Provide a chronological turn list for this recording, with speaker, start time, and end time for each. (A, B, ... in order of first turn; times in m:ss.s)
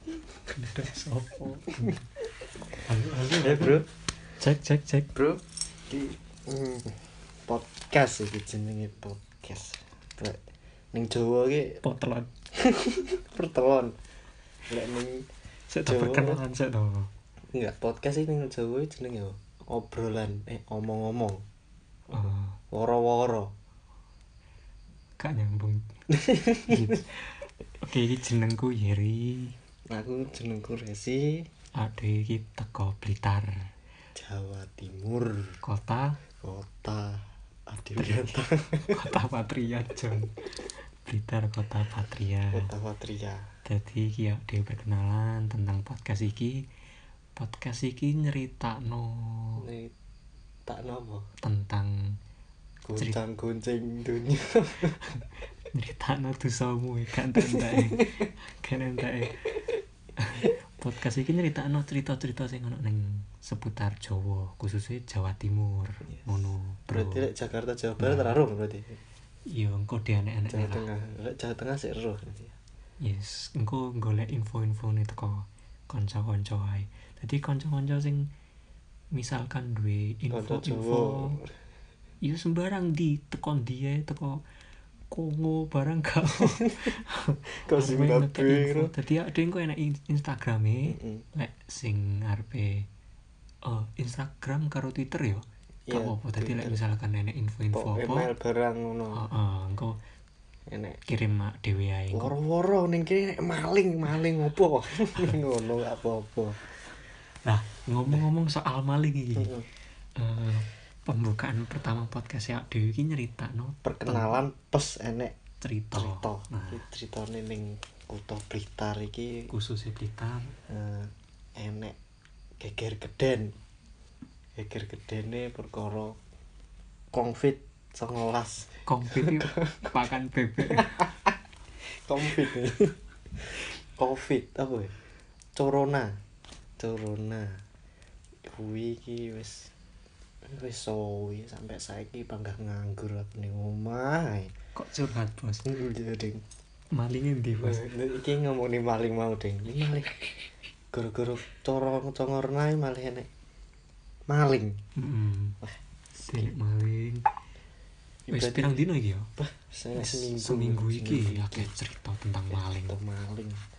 0:00.5-0:02.0 A
0:02.8-0:03.9 A
0:03.4-0:03.9 B
0:04.4-0:05.2 A
0:05.2-0:10.4 B
0:10.9-0:11.8 B
0:11.8-0:12.3 A
0:12.6-0:13.9 B
0:14.7-0:15.3 B
0:15.7-0:17.1 A
0:15.9-0:16.4 B
0:17.5-0:21.4 B
0:22.1-0:22.6 A
0:22.7-0:23.5 B
0:25.2-0:25.8 A
0:26.1-0:26.7 B
0:26.7-0:29.6 A
0:29.9-0:31.4 B
0:31.8-0:33.7 A
0:34.2-0:35.6 B
0:35.6-0:36.2 A
0:36.4-0:39.0 B
0:38.0-0:42.7 A
0:42.5-0:43.5 B
0:43.7-0:46.7 A
0:47.4-0:49.6 A
0:49.6-0:49.9 B
0:50.7-0:51.3 B
0:51.4-0:52.2 A
0:52.9-0:53.2 A
0:52.9-0:55.2 B
0:55.7-0:59.5 A
0:57.4-0:58.1 B
1:00.2-1:07.3 A
1:06.9-1:09.0 B
1:08.0-1:08.4 A
1:09.5-1:10.8 A
1:10.5-1:12.6 B
1:13.0-1:18.3 A
1:19.1-1:21.4 A
1:20.3-1:21.5 B
1:22.2-1:24.4 A
1:25.1-1:32.9 A
1:26.5-1:26.8 B
1:27.6-1:28.9 B
1:30.9-1:31.2 B
1:33.6-1:38.3 A
1:35.9-1:36.8 B
1:37.7-1:39.2 B
1:39.1-1:40.0 A
1:40.7-1:41.0 B
1:41.1-1:42.3 A
1:42.1-1:46.7 B
1:47.4-1:49.5 A
1:49.4-1:49.7 B
1:50.2-1:54.3 A
1:53.8-1:55.4 B
1:55.6-1:56.8 A
1:55.9-1:59.5 B
1:59.5-2:00.6 A
2:00.7-2:02.0 B
2:02.6-2:03.5 B
2:04.6-2:06.2 B
2:07.1-2:10.0 B
2:08.9-2:11.1 A
2:10.6-2:11.3 B
2:12.0-2:15.0 B
2:15.6-2:16.1 B
2:16.8-2:17.6 B
2:18.4-2:19.7 B
2:20.5-2:24.5 B
2:24.8-2:25.6 A
2:25.6-2:26.4 B
2:26.9-2:27.9 A
2:27.6-2:33.3 B
2:34.3-2:34.8 B
2:35.0-2:35.6 A
2:35.6-2:36.5 B
2:36.3-2:37.3 A
2:38.3-2:41.7 B
2:38.3-2:39.3 A
2:39.9-2:43.0 A
2:42.5-2:43.6 B